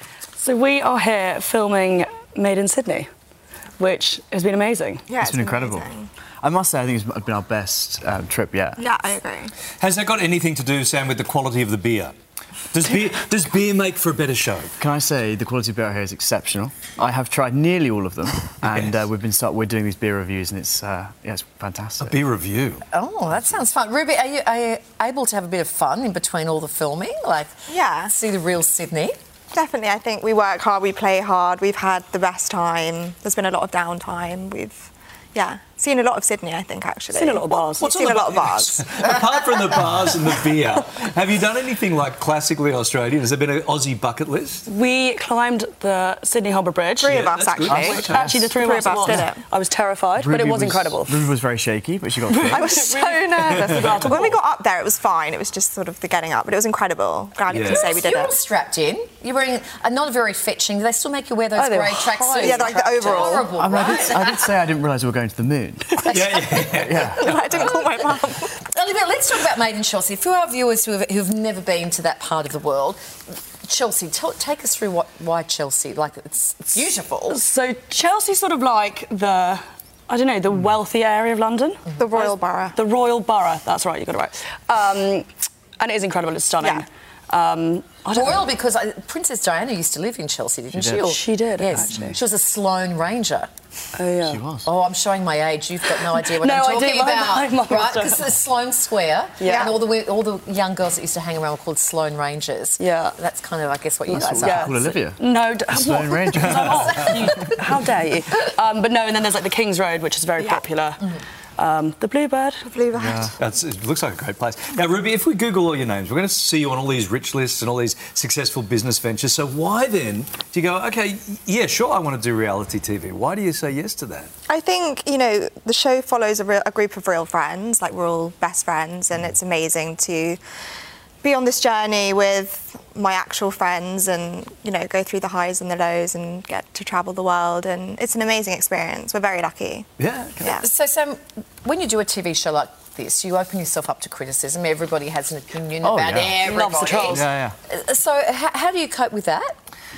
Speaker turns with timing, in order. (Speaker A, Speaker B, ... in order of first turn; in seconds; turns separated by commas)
Speaker A: 0.4-3.1, Speaker A: 3.8-5.1, Speaker B: 5.1-6.1, Speaker C: 5.2-5.9, Speaker C: 6.4-8.8, Speaker B: 8.8-9.5, Speaker D: 9.8-12.2, Speaker D: 12.7-14.7, Speaker C: 14.8-22.2, Speaker D: 18.7-19.1, Speaker D: 22.0-22.8, Speaker E: 22.9-29.1, Speaker B: 27.7-28.1, Speaker B: 29.5-38.9, Speaker A: 37.1-38.0, Speaker D: 37.8-44.6, Speaker A: 44.7-51.2, Speaker B: 47.0-49.4, Speaker D: 47.1-48.4, Speaker C: 47.7-48.5, Speaker C: 50.2-52.7, Speaker A: 52.3-54.4, Speaker B: 52.5-58.4, Speaker D: 53.4-54.0, Speaker D: 57.5-57.9, Speaker E: 57.6-64.4, Speaker A: 61.5-63.5, Speaker B: 62.4-63.5, Speaker C: 63.5-66.1, Speaker D: 66.0-67.2, Speaker C: 66.8-67.4, Speaker B: 67.2-68.5, Speaker E: 68.6-77.4, Speaker A: 77.3-85.3, Speaker B: 82.0-82.8, Speaker A: 85.8-88.4, Speaker B: 86.6-86.8, Speaker E: 88.1-93.5, Speaker C: 90.7-91.1, Speaker A: 91.0-91.9, Speaker C: 91.7-92.2, Speaker A: 94.0-94.4, Speaker C: 94.3-94.7, Speaker E: 94.7-105.0, Speaker A: 96.1-98.3, Speaker A: 99.4-99.7, Speaker B: 99.5-99.7, Speaker A: 102.8-103.2, Speaker C: 104.1-107.0, Speaker A: 104.1-112.7, Speaker D: 106.5-107.1, Speaker B: 110.4-110.6, Speaker B: 112.7-113.4, Speaker C: 113.0-113.3, Speaker D: 113.4-124.3, Speaker B: 124.5-130.4, Speaker B: 131.2-139.9, Speaker D: 140.0-140.6, Speaker B: 140.4-140.7, Speaker E: 140.6-149.6, Speaker C: 145.8-146.4, Speaker A: 146.4-147.3, Speaker D: 147.1-147.5